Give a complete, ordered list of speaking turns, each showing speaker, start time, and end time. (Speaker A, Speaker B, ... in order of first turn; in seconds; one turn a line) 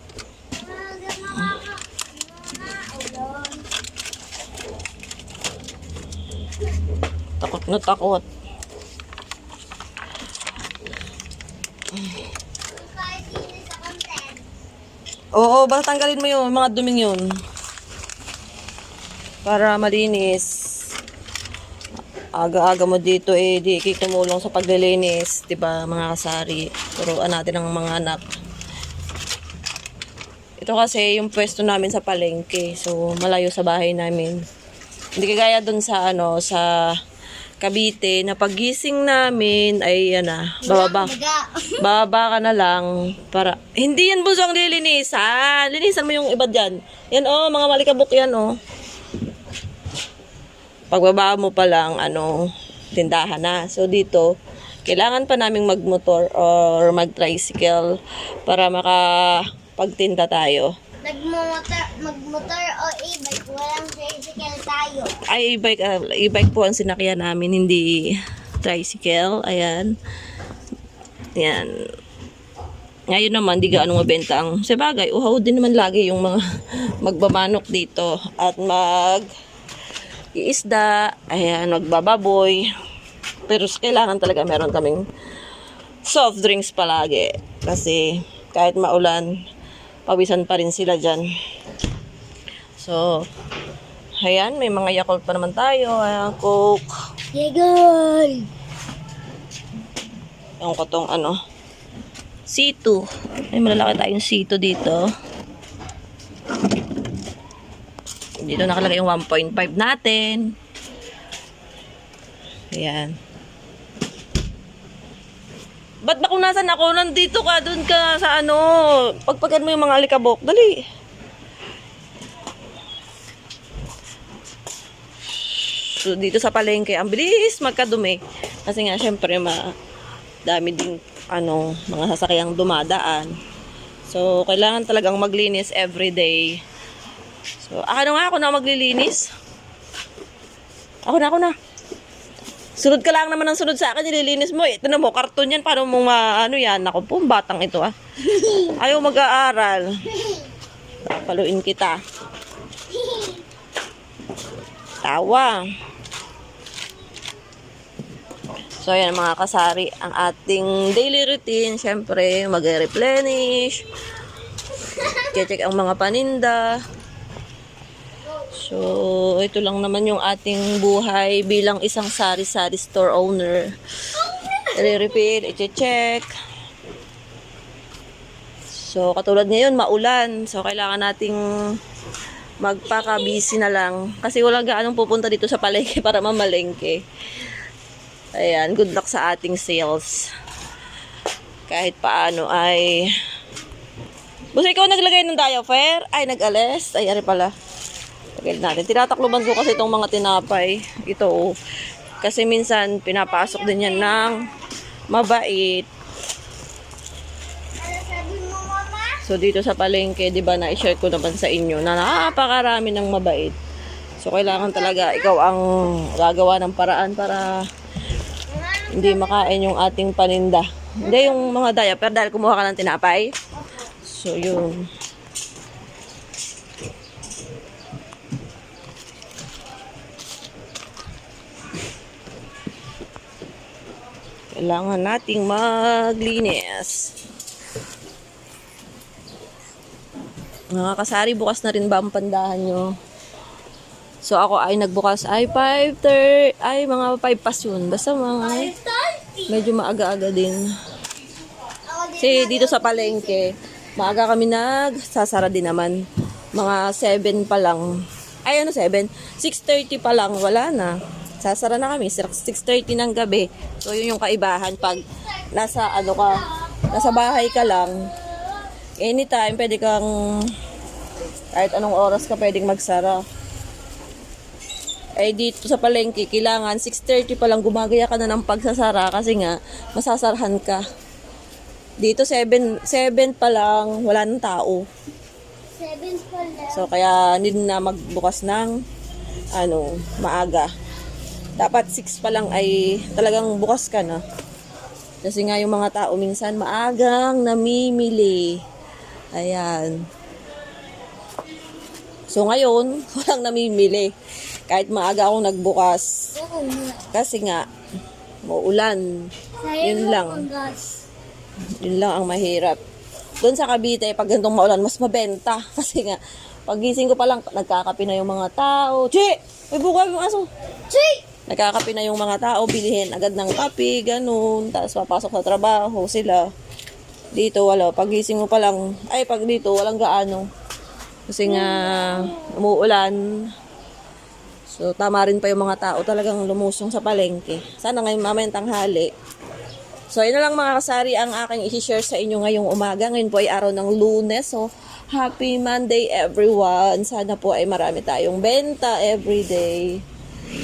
Speaker A: 0.6-3.7
Speaker B: 7.4-8.2
Speaker A: 12.7-14.5
Speaker B: 15.4-17.2
Speaker B: 19.4-20.5
Speaker B: 22.4-28.2
Speaker B: 30.6-34.4
Speaker B: 35.2-36.7
Speaker B: 37.6-41.1
Speaker A: 40.6-41.8
Speaker B: 41.8-48.5
Speaker B: 50.9-52.4
Speaker B: 53.0-54.3
Speaker B: 54.9-57.9
Speaker B: 58.5-60.7
Speaker A: 61.0-65.2
Speaker B: 65.3-68.0
Speaker B: 68.6-69.9
Speaker B: 71.4-71.7
Speaker B: 73.1-76.4
Speaker B: 77.0-79.3
Speaker B: 80.3-82.6
Speaker B: 83.5-85.0
Speaker B: 86.1-89.3
Speaker B: 90.1-91.2
Speaker B: 92.8-93.2
Speaker B: 94.2-96.9
Speaker A: 97.3-98.5
Speaker B: 100.6-101.4
Speaker B: 102.5-103.0
Speaker B: 103.5-105.0
Speaker B: 108.4-110.5
Speaker B: 112.7-113.1
Speaker B: 116.0-118.7
Speaker B: 119.2-120.8
Speaker B: 125.9-129.6
Speaker B: 130.5-133.3
Speaker B: 134.1-136.6
Speaker B: 137.6-139.3
Speaker B: 141.1-141.6
Speaker B: 142.8-150.1
Speaker B: 151.0-152.0
Speaker A: 152.9-153.4
Speaker B: 155.0-155.6
Speaker B: 158.8-163.8
Speaker B: 165.2-166.7
Speaker B: 168.6-173.7
Speaker A: 174.4-174.7
Speaker B: 174.7-176.3
Speaker B: 178.8-181.4
Speaker B: 182.6-187.0
Speaker B: 188.3-190.3
Speaker B: 191.7-193.1
Speaker B: 194.6-197.5
Speaker B: 198.4-201.6
Speaker B: 202.2-204.5
Speaker A: 203.6-204.3
Speaker B: 205.1-205.9
Speaker A: 207.8-209.3
Speaker B: 209.2-213.6
Speaker B: 214.2-217.6
Speaker A: 214.6-215.2
Speaker A: 218.5-219.5
Speaker B: 218.9-223.3
Speaker A: 221.0-221.5
Speaker B: 224.0-224.8
Speaker B: 234.5-237.1
Speaker B: 240.7-242.9
Speaker B: 244.2-248.7
Speaker A: 248.4-249.5
Speaker B: 249.5-250.6
Speaker A: 251.9-253.4
Speaker B: 252.2-256.0
Speaker B: 256.6-257.9
Speaker B: 258.4-268.1
Speaker B: 269.0-270.1
Speaker B: 271.5-273.2
Speaker B: 275.2-280.8
Speaker B: 282.0-284.8
Speaker A: 285.8-286.9
Speaker B: 286.7-288.8
Speaker B: 289.6-290.7
Speaker B: 291.6-294.2
Speaker B: 295.2-298.6
Speaker B: 299.4-300.0
Speaker B: 302.3-304.1
Speaker B: 304.7-306.1
Speaker A: 306.4-307.1
Speaker B: 307.1-307.6
Speaker B: 308.5-309.0
Speaker A: 309.6-311.0
Speaker B: 309.8-310.5
Speaker B: 311.8-312.8
Speaker B: 313.4-320.5
Speaker A: 320.9-321.2
Speaker B: 321.5-326.5
Speaker B: 327.3-330.5
Speaker B: 331.3-333.2
Speaker A: 331.5-332.3
Speaker B: 334.7-339.1
Speaker B: 340.1-350.0